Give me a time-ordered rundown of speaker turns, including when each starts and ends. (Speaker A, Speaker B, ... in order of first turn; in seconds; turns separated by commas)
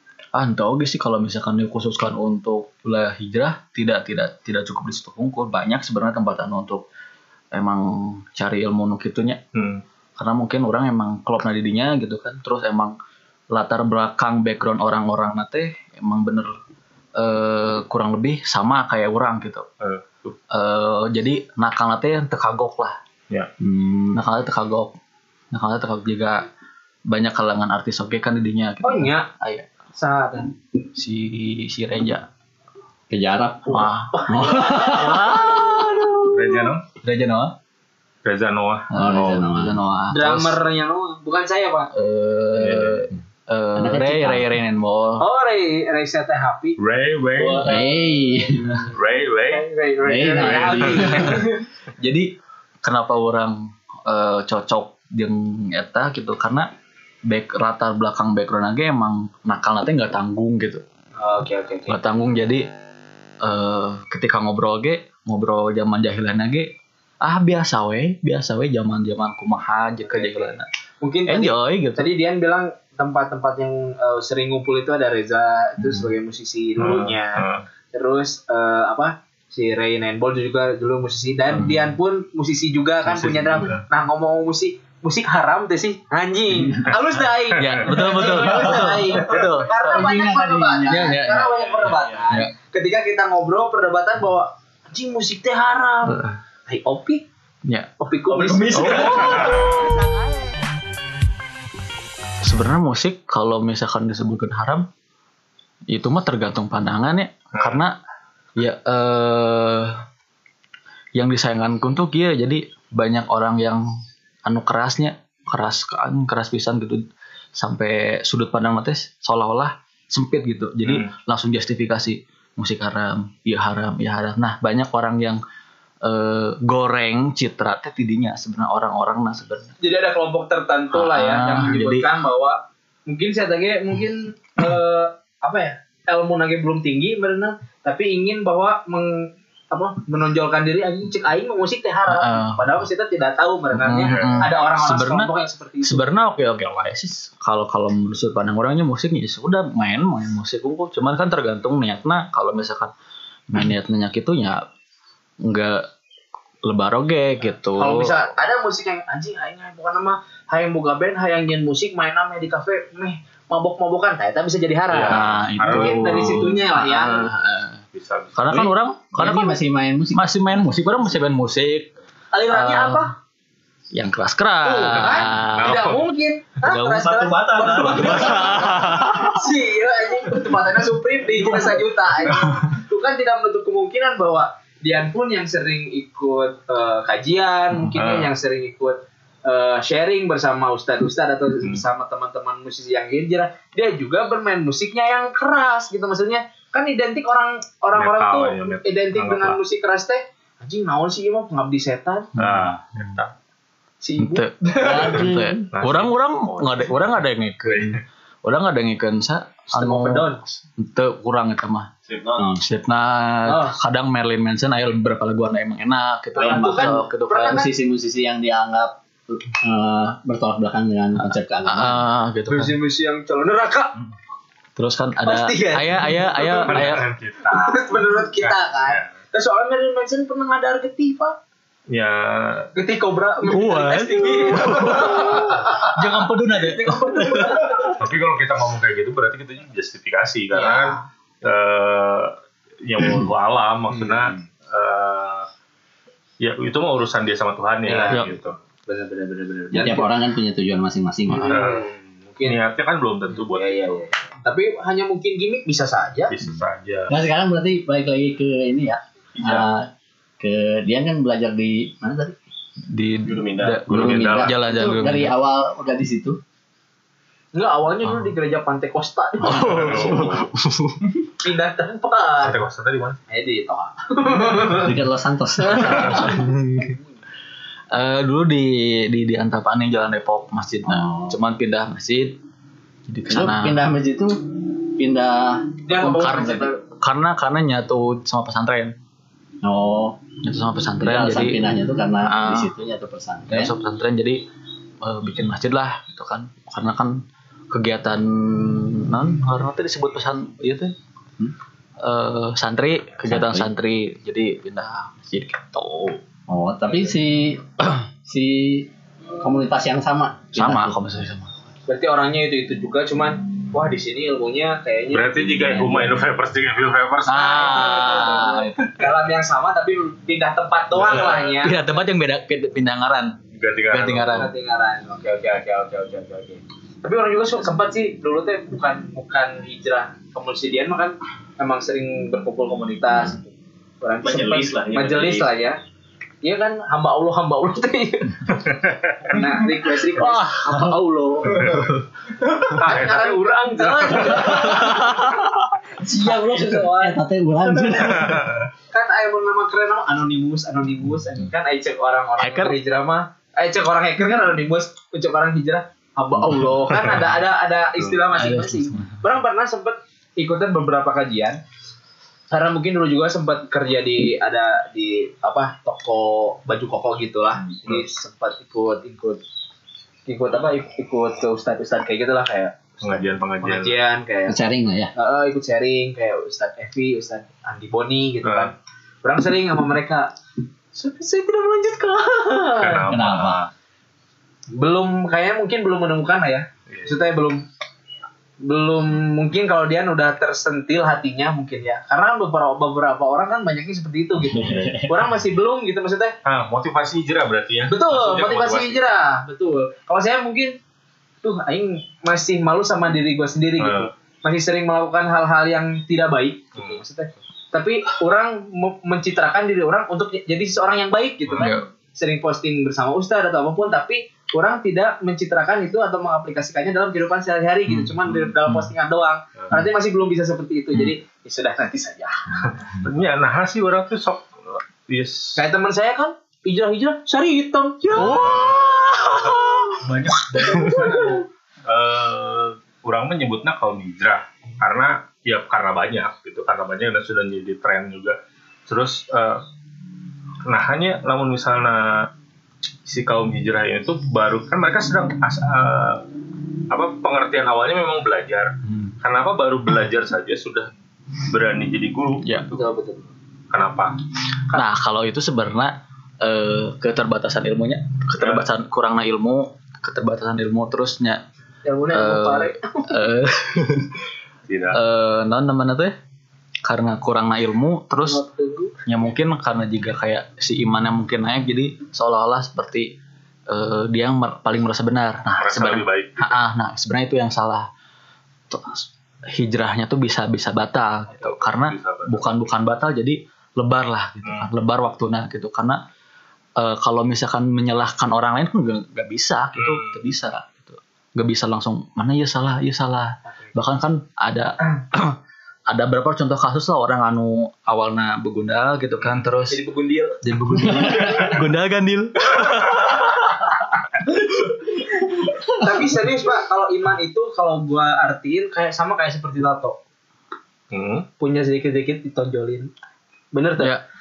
Speaker A: 0.3-6.8, Speaker A: 7.5-9.4, Speaker B: 9.5-9.8, Speaker A: 10.2-13.0, Speaker A: 13.5-16.6, Speaker A: 17.2-19.7, Speaker B: 19.8-20.4, Speaker A: 20.5-23.0, Speaker C: 23.6-24.2, Speaker A: 24.1-24.9, Speaker A: 25.5-26.5, Speaker A: 27.1-29.7, Speaker D: 28.8-29.3, Speaker D: 29.9-30.5, Speaker A: 30.9-32.3, Speaker C: 33.1-35.8, Speaker A: 33.7-37.5, Speaker D: 34.1-35.6, Speaker B: 36.3-36.9, Speaker B: 38.2-39.5, Speaker C: 38.9-39.8, Speaker A: 39.0-40.6, Speaker D: 40.1-41.9, Speaker A: 41.9-45.2, Speaker B: 42.5-43.1, Speaker C: 43.8-44.5, Speaker D: 45.2-46.8, Speaker B: 46.8-47.7, Speaker D: 47.4-47.9, Speaker C: 47.6-48.8, Speaker A: 48.5-48.9, Speaker B: 48.9-49.7, Speaker D: 49.5-51.6, Speaker C: 50.0-51.4, Speaker B: 50.4-51.4, Speaker A: 50.9-51.5, Speaker A: 52.0-52.3, Speaker A: 52.8-56.7, Speaker A: 57.3-60.8, Speaker D: 61.2-62.0, Speaker A: 61.9-62.6, Speaker A: 63.4-70.7, Speaker D: 70.0-97.2, Speaker A: 71.3-72.1, Speaker B: 76.8-77.6, Speaker A: 81.5-81.9, Speaker B: 83.0-83.8, Speaker A: 87.6-89.8, Speaker C: 88.4-88.9, Speaker C: 89.8-91.3, Speaker A: 90.9-92.5, Speaker E: 91.8-92.2, Speaker A: 96.1-96.4, Speaker D: 98.0-100.5, Speaker E: 98.5-99.3, Speaker A: 98.7-99.6, Speaker B: 99.0-99.7, Speaker A: 102.4-104.9, Speaker A: 105.9-108.0, Speaker B: 107.5-107.8, Speaker A: 108.6-110.0, Speaker A: 111.2-113.8, Speaker A: 114.5-117.0, Speaker A: 117.6-125.4, Speaker B: 120.8-121.1, Speaker A: 126.0-129.8, Speaker D: 129.8-146.2, Speaker A: 130.9-132.1, Speaker A: 142.1-142.8, Speaker A: 143.7-145.3, Speaker B: 144.0-144.5, Speaker A: 145.8-152.9, Speaker A: 153.5-154.7, Speaker A: 155.4-155.9, Speaker A: 156.6-158.2, Speaker D: 157.8-167.3, Speaker B: 164.9-166.5, Speaker A: 165.1-167.8, Speaker B: 167.9-168.4, Speaker A: 168.3-169.6, Speaker C: 168.5-170.3, Speaker A: 170.1-171.9, Speaker D: 172.3-173.1, Speaker A: 172.5-173.1, Speaker A: 173.9-175.9, Speaker D: 174.6-202.3, Speaker B: 175.6-176.1, Speaker A: 176.6-179.2, Speaker E: 177.2-178.6, Speaker B: 187.9-188.3, Speaker B: 198.0-199.6, Speaker A: 202.4-203.2, Speaker B: 202.4-203.3, Speaker D: 204.0-205.2, Speaker A: 204.2-211.9, Speaker C: 204.8-205.7, Speaker B: 205.7-207.0, Speaker B: 207.7-208.0, Speaker D: 209.7-210.4, Speaker E: 212.1-212.5, Speaker C: 212.4-212.6, Speaker A: 212.6-217.7, Speaker D: 213.5-213.8, Speaker C: 216.3-222.1, Speaker D: 216.4-217.7, Speaker A: 221.2-222.7, Speaker D: 222.5-223.9, Speaker A: 224.8-227.1, Speaker D: 225.2-226.9, Speaker B: 226.6-229.1, Speaker D: 227.5-231.4, Speaker B: 231.9-232.7, Speaker D: 232.8-238.0, Speaker A: 233.5-237.9, Speaker B: 237.9-245.5, Speaker C: 240.6-240.9, Speaker D: 244.0-244.4, Speaker B: 246.4-248.6, Speaker D: 247.9-250.1, Speaker C: 249.7-251.6, Speaker D: 251.4-252.6, Speaker B: 251.4-251.9, Speaker B: 252.4-254.0, Speaker D: 253.3-256.3, Speaker B: 256.3-257.3, Speaker C: 257.1-259.9, Speaker C: 260.4-262.4, Speaker A: 262.9-265.4, Speaker E: 263.2-263.8, Speaker B: 263.9-264.6, Speaker C: 263.9-266.4, Speaker D: 267.6-270.3, Speaker A: 269.4-271.2, Speaker B: 269.5-270.4, Speaker D: 271.4-272.6, Speaker B: 272.4-273.2, Speaker D: 273.3-274.9, Speaker C: 274.6-276.5, Speaker A: 275.7-276.9, Speaker D: 275.9-276.2, Speaker A: 277.9-282.4, Speaker C: 280.9-281.4, Speaker A: 283.1-283.9, Speaker C: 283.3-286.7, Speaker D: 285.9-286.8, Speaker A: 286.0-289.0, Speaker C: 289.6-290.2, Speaker A: 290.4-291.7, Speaker C: 291.0-293.7, Speaker A: 292.3-292.7, Speaker A: 293.5-294.4, Speaker A: 295.0-300.9, Speaker A: 302.0-306.2, Speaker C: 303.3-303.7, Speaker C: 306.5-308.9, Speaker C: 309.4-311.0, Speaker A: 310.6-311.6, Speaker D: 311.9-316.0, Speaker B: 315.1-317.5, Speaker C: 315.8-316.1, Speaker A: 317.3-319.1, Speaker D: 317.3-321.8, Speaker A: 321.1-323.4, Speaker B: 321.1-321.4, Speaker B: 323.5-324.5, Speaker A: 323.9-324.5, Speaker D: 324.3-335.8, Speaker E: 334.2-335.5, Speaker D: 336.4-338.6, Speaker B: 338.6-339.3, Speaker D: 339.2-341.8, Speaker A: 340.2-340.9, Speaker B: 341.5-341.9, Speaker D: 342.6-348.3, Speaker B: 342.8-344.8, Speaker A: 344.8-345.4, Speaker C: 346.1-348.6, Speaker D: 348.9-361.6, Speaker A: 352.4-352.8, Speaker A: 358.3-359.2, Speaker D: 362.5-369.4, Speaker D: 370.3-374.6, Speaker B: 373.0-374.0, Speaker C: 374.5-375.1, Speaker D: 375.1-380.3, Speaker B: 378.4-378.7, Speaker D: 380.9-383.1, Speaker B: 382.8-383.7, Speaker C: 383.1-383.6, Speaker D: 384.7-387.6, Speaker B: 386.9-387.2, Speaker D: 388.6-396.4, Speaker C: 394.5-395.1, Speaker B: 394.6-394.9, Speaker B: 396.4-399.0, Speaker D: 397.9-400.8, Speaker D: 401.4-422.6, Speaker B: 403.8-404.1, Speaker B: 406.8-407.0, Speaker A: 411.6-411.9, Speaker A: 417.9-418.9, Speaker B: 422.6-425.6, Speaker D: 425.6-430.0, Speaker A: 428.2-429.4, Speaker B: 428.2-428.9, Speaker B: 430.0-439.6, Speaker D: 430.5-431.4, Speaker B: 440.6-442.3, Speaker B: 443.1-446.2, Speaker B: 446.9-450.9, Speaker A: 448.9-449.1, Speaker B: 451.4-452.5, Speaker A: 452.4-452.7, Speaker D: 452.7-453.3, Speaker B: 453.7-454.1, Speaker A: 454.7-461.4, Speaker B: 458.4-458.6, Speaker D: 461.9-463.2, Speaker A: 462.1-464.2, Speaker B: 464.7-465.0, Speaker A: 464.9-466.1, Speaker A: 466.9-468.4, Speaker D: 468.2-468.9, Speaker A: 469.0-473.1, Speaker A: 473.7-477.9, Speaker B: 475.6-476.5, Speaker A: 478.7-486.0, Speaker B: 481.4-482.5, Speaker B: 484.4-484.7, Speaker A: 486.8-499.8, Speaker B: 489.8-490.1, Speaker D: 499.7-500.4, Speaker A: 500.4-503.6, Speaker C: 500.9-501.3, Speaker D: 505.8-510.0, Speaker B: 510.9-511.3, Speaker D: 511.4-512.9, Speaker D: 513.5-514.0, Speaker A: 513.8-514.0